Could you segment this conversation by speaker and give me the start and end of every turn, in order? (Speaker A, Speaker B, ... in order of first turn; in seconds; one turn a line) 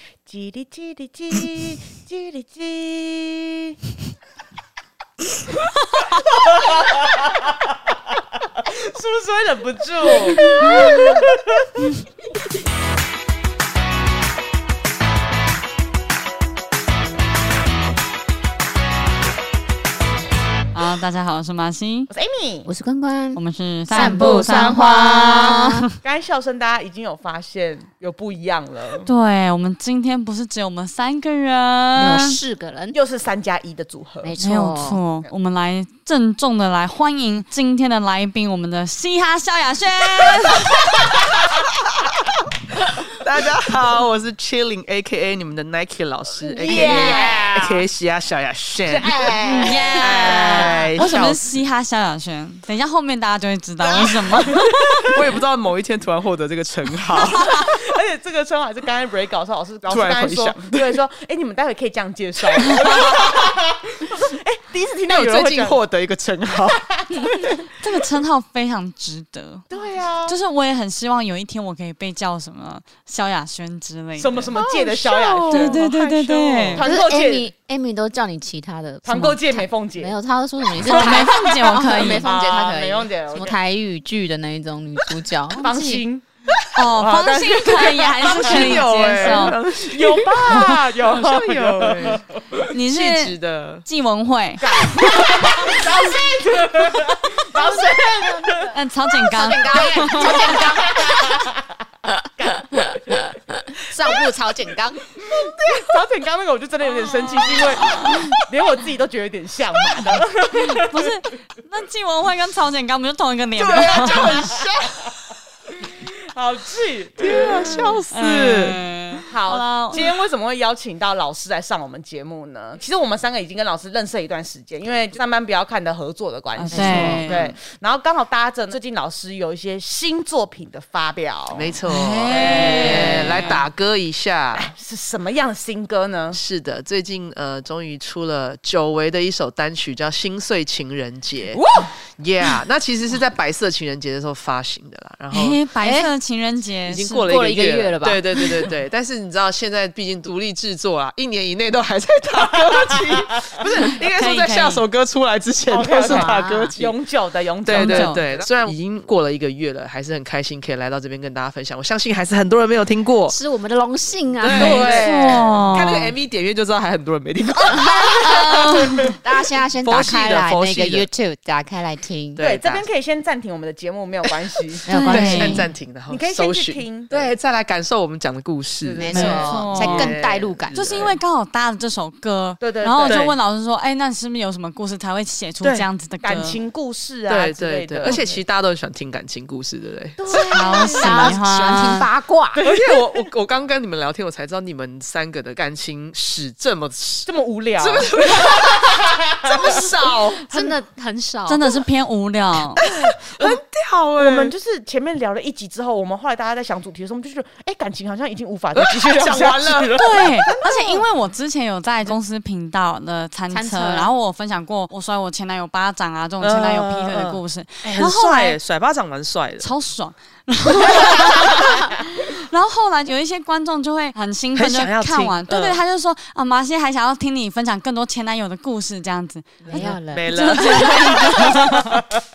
Speaker A: 0.2-3.8
Speaker A: 6.2-7.6
Speaker A: 8.6-11.9
Speaker B: 10.6-11.2
Speaker B: 20.7-22.1
Speaker A: 22.1-22.7
Speaker C: 22.6-25.8
Speaker B: 23.3-25.9
Speaker A: 23.9-25.0
Speaker A: 26.0-29.1
Speaker B: 29.0-32.4
Speaker C: 32.0-33.0
Speaker A: 32.9-34.3
Speaker C: 34.2-35.0
Speaker B: 34.4-41.0
Speaker D: 41.0-42.2
Speaker D: 43.0-49.3
Speaker A: 46.4-47.8
Speaker C: 46.6-47.3
Speaker A: 48.9-51.4
Speaker B: 49.4-55.2
Speaker D: 49.9-51.3
Speaker A: 53.8-55.2
Speaker D: 55.0-57.8
Speaker A: 57.2-65.8
Speaker D: 59.9-61.0
Speaker D: 62.7-63.4
Speaker D: 65.1-66.8
Speaker A: 66.7-67.7
Speaker B: 67.8-69.6
Speaker A: 69.7-70.4
Speaker B: 70.2-74.5
Speaker A: 74.2-77.5
Speaker C: 74.6-75.6
Speaker B: 75.5-76.9
Speaker C: 76.8-86.0
Speaker A: 79.0-80.1
Speaker A: 80.8-83.5
Speaker B: 80.8-82.3
Speaker A: 85.5-86.2
Speaker B: 86.7-89.6
Speaker A: 86.9-92.6
Speaker D: 88.2-92.2
Speaker B: 92.7-95.5
Speaker D: 92.8-93.8
Speaker A: 94.6-98.7
Speaker C: 97.5-101.4
Speaker B: 98.7-100.6
Speaker A: 99.7-101.7
Speaker A: 102.4-103.3
Speaker C: 103.8-105.0
Speaker A: 105.2-111.0
Speaker B: 110.7-114.5
Speaker D: 113.6-115.3
Speaker A: 114.0-114.7
Speaker A: 115.8-118.0
Speaker D: 117.2-118.8
Speaker B: 118.1-120.0
Speaker A: 119.3-133.5
Speaker B: 126.5-127.5
Speaker C: 126.7-127.3
Speaker D: 131.5-134.7
Speaker B: 131.8-133.6
Speaker A: 134.5-136.4
Speaker D: 136.3-145.6
Speaker A: 141.5-141.9
Speaker B: 145.3-147.3
Speaker C: 145.8-146.1
Speaker D: 146.8-156.9
Speaker C: 147.3-148.7
Speaker B: 154.0-154.8
Speaker A: 155.7-158.5
Speaker C: 156.0-156.7
Speaker D: 157.6-163.3
Speaker B: 157.7-158.2
Speaker C: 163.3-165.3
Speaker D: 164.4-168.9
Speaker A: 164.5-165.7
Speaker B: 164.6-166.1
Speaker C: 167.8-168.1
Speaker B: 168.2-169.1
Speaker C: 168.9-172.4
Speaker D: 169.8-171.1
Speaker D: 172.3-172.8
Speaker A: 172.4-177.3
Speaker C: 174.9-175.7
Speaker B: 174.9-175.7
Speaker D: 175.1-181.2
Speaker A: 178.8-179.5
Speaker C: 179.0-180.8
Speaker B: 179.1-180.1
Speaker B: 180.7-186.6
Speaker A: 182.6-183.2
Speaker D: 183.1-183.3
Speaker A: 186.2-188.4
Speaker D: 187.3-190.6
Speaker A: 190.2-191.3
Speaker B: 190.5-192.1
Speaker C: 190.9-192.6
Speaker D: 192.6-200.8
Speaker A: 192.6-193.2
Speaker A: 197.2-199.8
Speaker C: 199.5-201.8
Speaker B: 201.5-202.8
Speaker D: 202.8-204.5
Speaker A: 202.8-203.6
Speaker A: 204.2-211.0
Speaker D: 208.7-210.3
Speaker B: 209.9-218.6
Speaker C: 213.5-214.1
Speaker D: 216.4-219.7
Speaker B: 219.6-231.8
Speaker D: 220.8-221.5
Speaker D: 224.5-225.8
Speaker A: 229.6-230.0
Speaker C: 229.7-231.4
Speaker D: 229.8-232.0